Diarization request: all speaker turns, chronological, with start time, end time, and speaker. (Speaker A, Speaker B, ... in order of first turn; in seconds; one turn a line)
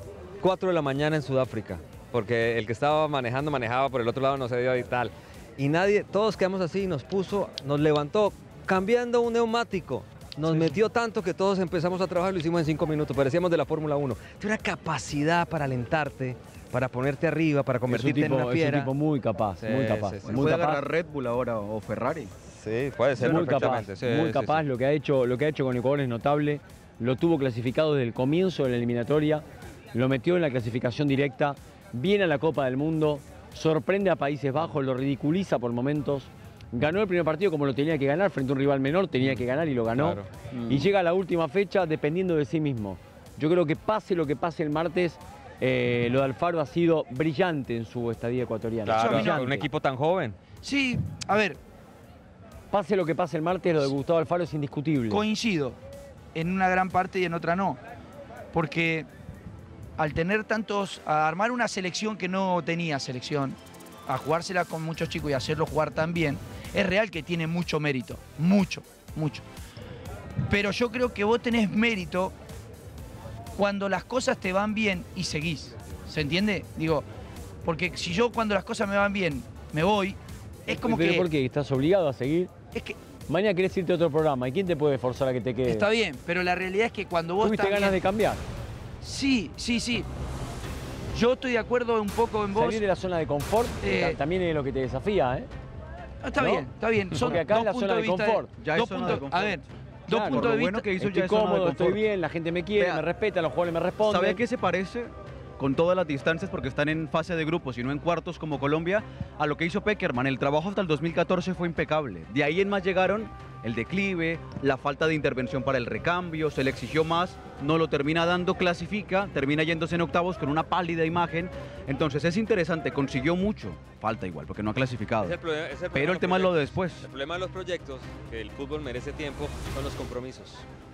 Speaker A: 0.4-18.4
Speaker B: 10.5-10.8
Speaker C: 17.9-20.8
Speaker B: 17.9-18.9
Speaker A: 19.6-20.4
Speaker D: 20.2-22.3
Speaker A: 22.5-24.6
Speaker D: 23.1-23.8
Speaker C: 23.2-49.7
Speaker A: 40.0-40.3
Speaker D: 40.5-40.9
Speaker A: 48.9-50.4
Speaker B: 48.9-49.4
Speaker B: 50.6-51.6
Speaker C: 52.7-55.2
Speaker B: 55.1-55.8
Speaker B: 56.4-57.8
Speaker B: 58.5-59.1
Speaker B: 60.0-69.5
Speaker B: 70.5-72.3
Speaker B: 73.6-77.1
Speaker B: 77.6-81.3
Speaker C: 80.7-82.5
Speaker C: 83.3-85.8
Speaker B: 85.7-88.0
Speaker C: 87.4-88.4
Speaker B: 89.0-90.1
Speaker B: 91.1-92.8
Speaker C: 92.5-95.5
Speaker B: 93.8-94.2
Speaker B: 96.2-100.9
Speaker C: 96.4-98.5
Speaker D: 98.6-99.6
Speaker C: 100.1-104.4
Speaker D: 100.2-102.0
Speaker D: 102.8-103.0
Speaker D: 104.0-125.4
Speaker A: 125.2-130.6
Speaker D: 125.9-127.1